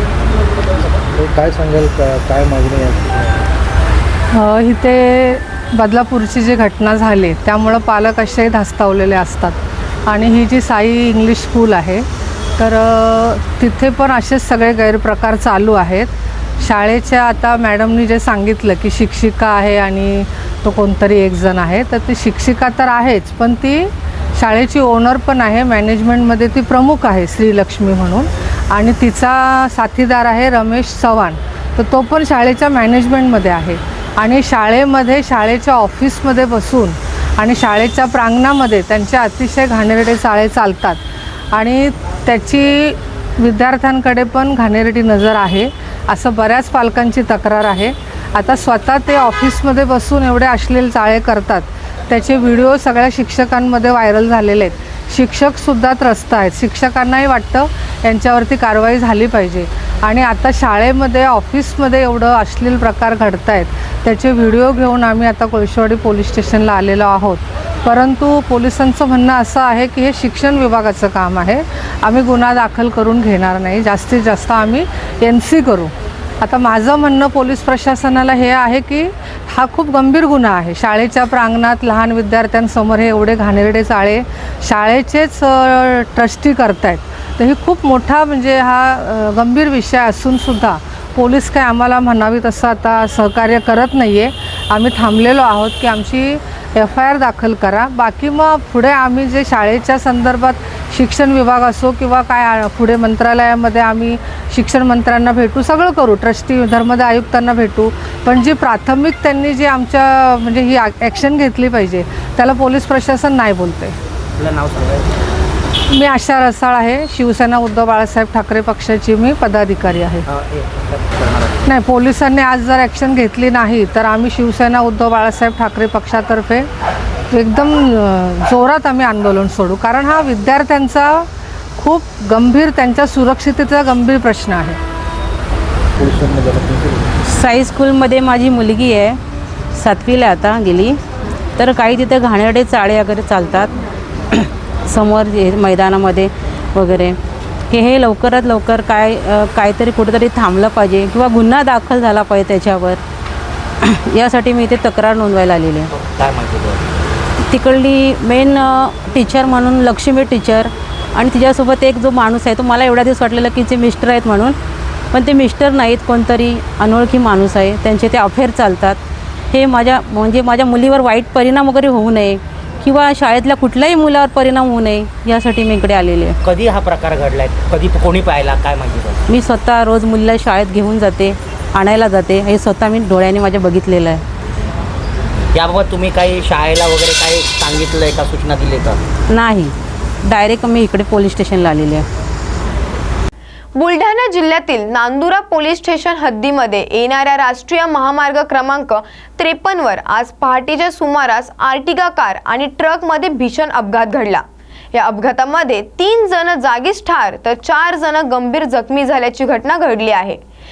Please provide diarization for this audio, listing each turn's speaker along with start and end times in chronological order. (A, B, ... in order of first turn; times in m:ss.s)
0:01.2-0:03.4 A
0:04.4-0:12.0 B
0:12.6-0:41.0 B
0:41.5-1:53.9 B
1:54.4-1:55.1 C
1:55.9-2:00.2 B
2:00.2-2:01.6 C
2:01.6-2:06.7 B
2:07.3-2:11.2 B
2:11.8-2:14.8 B
2:16.0-2:17.1 A
2:17.3-2:19.2 D
2:19.7-2:21.0 D
2:21.6-2:23.7 D
2:24.3-2:27.2 D
2:27.7-2:33.0 D
2:33.8-2:35.9 D
2:36.0-2:36.9 C
2:37.5-2:44.6 D
2:45.1-2:56.4 D
2:56.4-2:59.2 C
2:59.3-3:04.2 D
3:05.5-3:09.0 C
3:09.3-3:12.0 D
3:13.8-3:30.4 E